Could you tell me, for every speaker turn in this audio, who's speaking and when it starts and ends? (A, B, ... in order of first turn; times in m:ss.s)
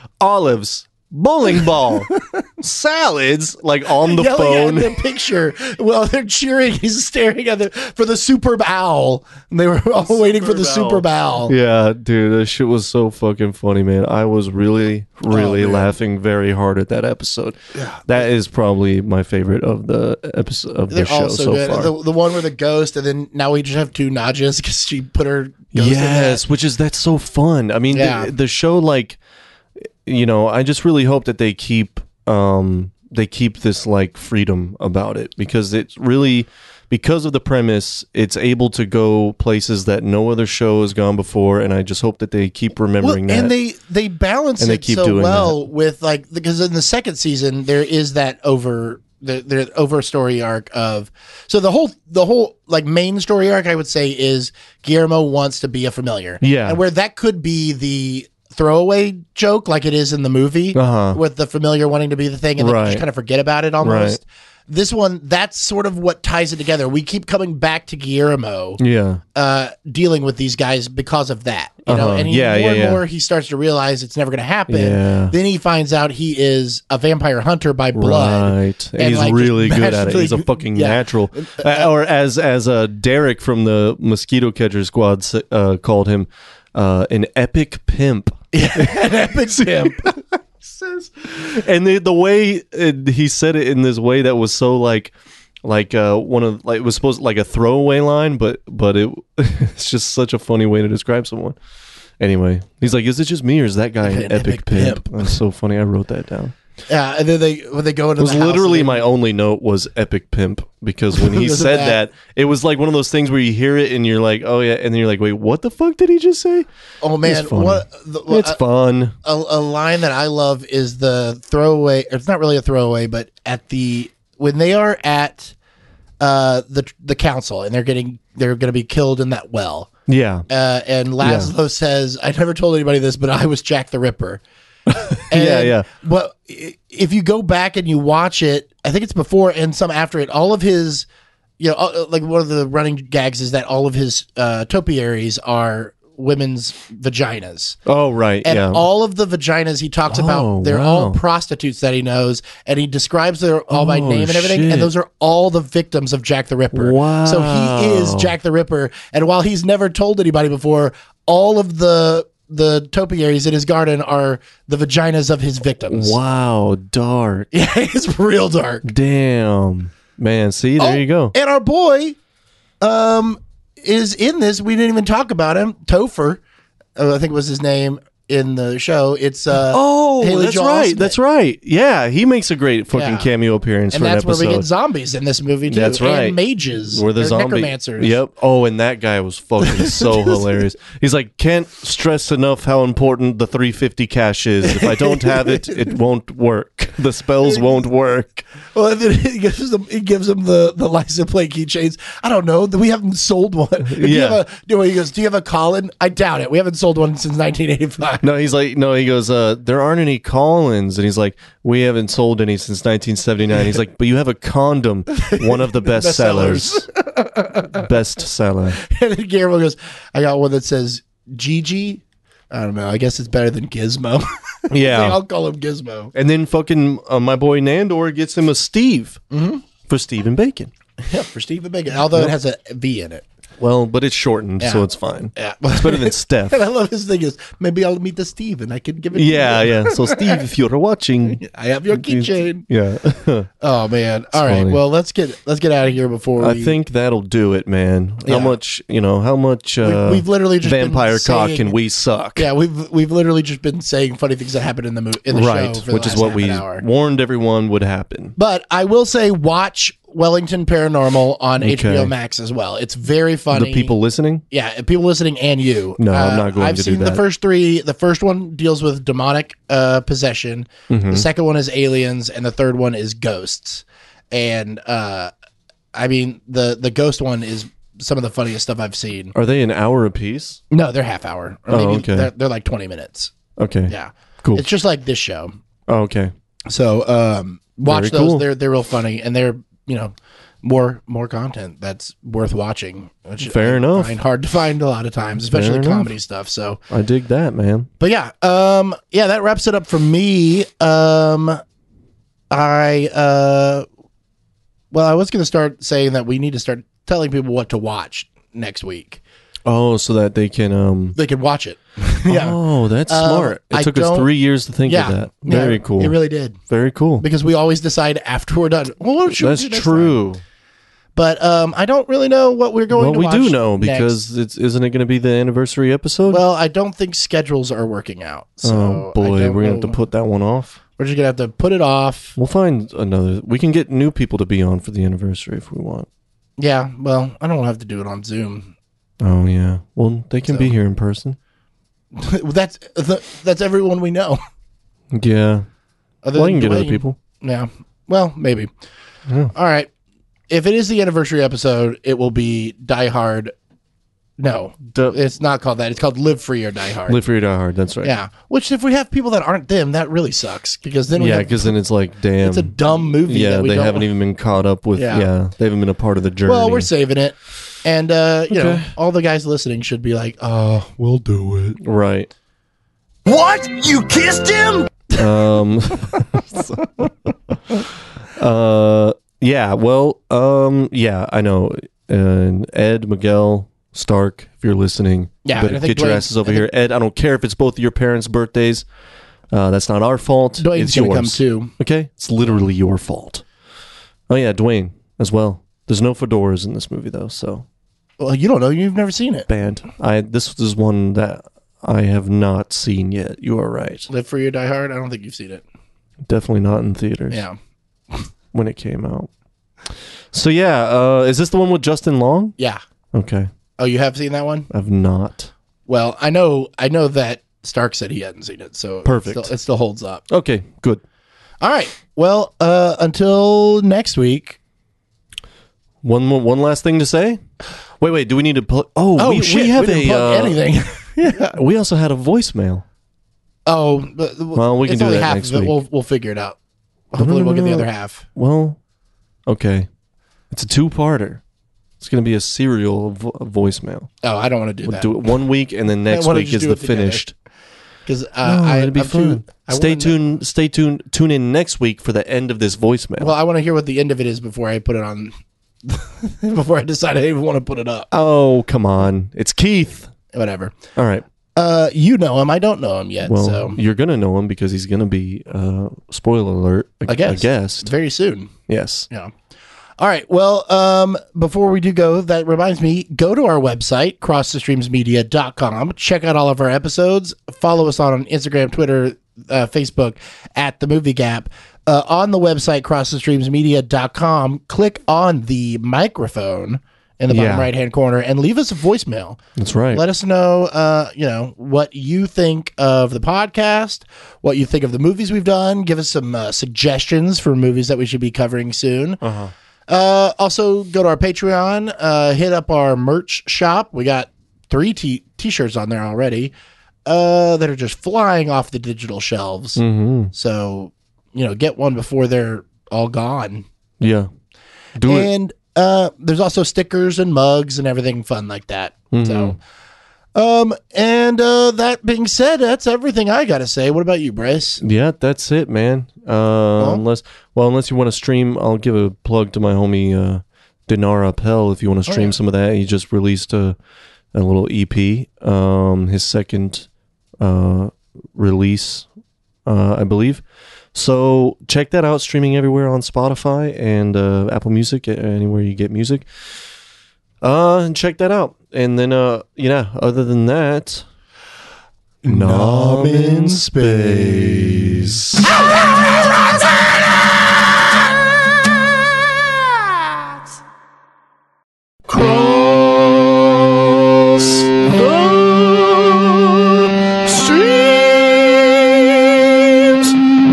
0:00.2-0:04.9 A
0:01.6-0:02.4 B
0:04.0-0:11.5 B
0:10.0-0:21.9 A
0:15.3-0:15.9 B
0:17.8-0:18.3 B
0:20.9-0:26.4 B
0:25.7-0:29.2 A
0:27.9-0:28.3 B
0:30.0-0:43.5 A
0:43.0-1:08.8 B
0:44.6-0:45.6 A
0:56.4-0:56.8 A
1:00.7-1:01.2 A
1:02.6-1:03.0 A
1:03.8-1:04.2 A
1:08.8-1:09.2 A
1:09.3-1:21.9 B
1:11.9-1:13.0 A
1:14.7-1:15.4 A
1:17.9-1:35.1 A
1:28.5-1:30.2 B
1:35.6-1:41.6 A
1:42.2-1:46.5 A
1:44.0-1:45.3 B
1:46.9-1:49.0 B
1:48.2-1:56.7 A
1:51.1-1:52.0 B
1:57.0-1:58.6 B
1:57.2-1:59.2 A
1:59.2-2:05.6 B
2:06.2-2:09.9 B
2:10.1-2:10.5 A
2:10.5-2:14.4 B
2:11.2-2:11.5 A
2:14.9-2:15.8 A
2:15.3-2:21.1 B
2:21.6-2:27.8 B
2:27.8-2:28.8 A
2:28.4-2:46.2 B
2:30.1-2:31.2 A
2:33.7-2:34.9 A
2:36.7-2:38.3 A
2:45.9-2:47.5 A
2:47.5-2:48.9 B
2:48.8-2:51.3 A
2:50.8-2:52.2 B
2:52.8-2:56.4 B
2:57.0-3:01.2 B
2:59.6-3:04.7 A
3:02.9-3:03.3 B
3:03.9-3:08.2 B
3:05.7-3:18.5 A
3:09.6-3:10.5 B
3:14.6-3:15.9 B
3:17.4-3:17.7 B
3:18.6-3:28.2 B
3:23.8-3:24.4 A
3:28.2-3:36.8 A
3:35.2-3:37.9 B
3:37.7-3:38.8 A
3:38.8-3:46.1 B
3:44.7-3:45.2 A
3:46.1-3:49.2 A
3:49.3-3:49.6 B
3:49.9-3:50.7 A
3:51.0-3:53.2 B
3:53.6-3:56.6 A
3:54.6-4:00.4 B
3:59.1-4:03.5 A
4:01.3-4:02.6 B
4:03.6-4:06.8 B
4:04.3-4:04.8 A
4:06.4-4:12.5 A
4:08.2-4:08.6 B
4:09.8-4:11.8 B
4:12.4-4:16.8 B
4:15.3-4:18.4 A
4:18.4-4:23.9 B
4:21.6-4:22.1 A
4:23.5-4:24.4 A
4:24.5-4:35.3 B
4:26.0-4:27.2 A
4:30.9-4:31.3 A
4:35.9-4:39.3 B
4:39.3-4:40.6 A
4:40.7-4:43.3 B
4:41.7-4:42.3 A
4:43.6-4:44.6 A
4:43.9-4:45.5 B
4:45.9-4:46.3 A
4:46.7-4:56.8 B
4:47.8-4:48.4 A
4:53.4-4:54.1 A
4:55.5-4:56.1 A
4:56.9-4:57.9 A
4:58.0-5:01.6 B
5:02.5-5:03.9 B
5:04.9-5:09.2 B
5:09.7-5:11.2 A
5:11.2-5:14.3 B
5:12.3-5:16.2 A
5:14.8-5:16.6 B
5:16.7-5:17.3 A
5:17.2-5:20.2 B
5:19.3-5:20.4 A
5:21.2-5:24.2 B
5:22.9-5:26.4 A
5:26.3-5:30.0 B
5:28.6-5:30.8 A
5:31.0-5:32.4 B
5:32.4-5:36.1 A
5:36.6-5:38.7 B
5:39.2-5:41.4 A
5:40.5-5:40.7 B
5:42.1-5:44.4 B
5:45.1-5:45.7 A
5:46.2-5:48.7 B
5:46.3-5:47.2 A
5:49.3-5:49.5 A
5:49.5-5:49.9 B
5:50.5-5:53.5 B
5:54.4-5:57.2 B
5:54.9-5:55.2 A
5:57.1-5:58.1 A
5:58.0-6:01.8 B
6:01.2-6:06.9 A
6:02.4-6:04.1 B
6:05.0-6:05.3 B
6:06.5-6:11.7 B
6:08.5-6:08.9 A
6:11.7-6:12.3 A
6:13.3-6:15.0 B
6:15.1-6:17.1 A
6:18.4-6:28.8 A
6:25.4-6:26.6 B
6:29.5-6:33.4 A
6:30.6-6:31.7 B
6:34.3-6:37.7 A
6:38.2-6:39.5 B
6:39.5-6:44.1 A
6:44.1-6:45.6 B
6:46.3-6:47.4 A
6:47.3-6:47.6 B
6:48.5-6:49.3 A
6:50.3-6:52.5 A
6:53.1-6:53.5 A
6:53.8-6:54.7 B
6:54.7-6:55.5 A
6:55.9-7:00.2 B
6:59.0-6:59.5 A
7:00.3-7:01.0 A
7:01.6-7:04.6 B
7:06.0-7:07.4 A
7:08.0-7:10.6 A
7:09.2-7:11.6 B
7:11.4-7:12.8 A
7:13.7-7:16.6 B
7:14.6-7:15.7 A
7:17.1-7:18.2 B
7:17.2-7:18.8 A
7:19.5-7:19.9 A
7:20.5-7:21.4 A
7:22.0-7:24.1 A
7:24.2-7:25.1 B
7:24.8-7:27.3 A
7:26.1-7:27.2 B
7:28.1-7:30.2 B
7:28.4-7:33.3 A
7:33.2-7:38.1 B
7:38.1-7:40.1 A
7:40.3-7:40.8 B
7:41.0-7:41.3 A
7:41.6-7:43.8 B
7:43.2-7:47.9 A
7:47.1-7:48.5 B
7:48.7-7:49.1 A
7:50.0-8:09.4 B
8:07.3-8:07.7 A
8:09.6-8:10.0 A
8:09.9-8:19.2 B
8:19.2-8:19.5 A
8:19.9-8:26.5 B
8:27.1-8:33.7 B
8:29.8-8:30.3 A
8:34.0-8:34.3 A
8:35.0-8:35.3 A
8:35.1-8:39.6 B
8:39.1-8:39.6 A
8:40.4-8:44.8 B
8:44.8-8:53.8 A
8:52.1-8:52.4 B
8:54.3-8:56.9 A
8:57.4-8:59.1 A
8:59.7-9:00.4 A
9:00.9-9:06.3 A
9:07.4-9:11.0 A
9:12.2-9:15.2 B
9:12.3-9:15.5 A
9:22.1-9:23.3 A
9:24.3-9:30.1 A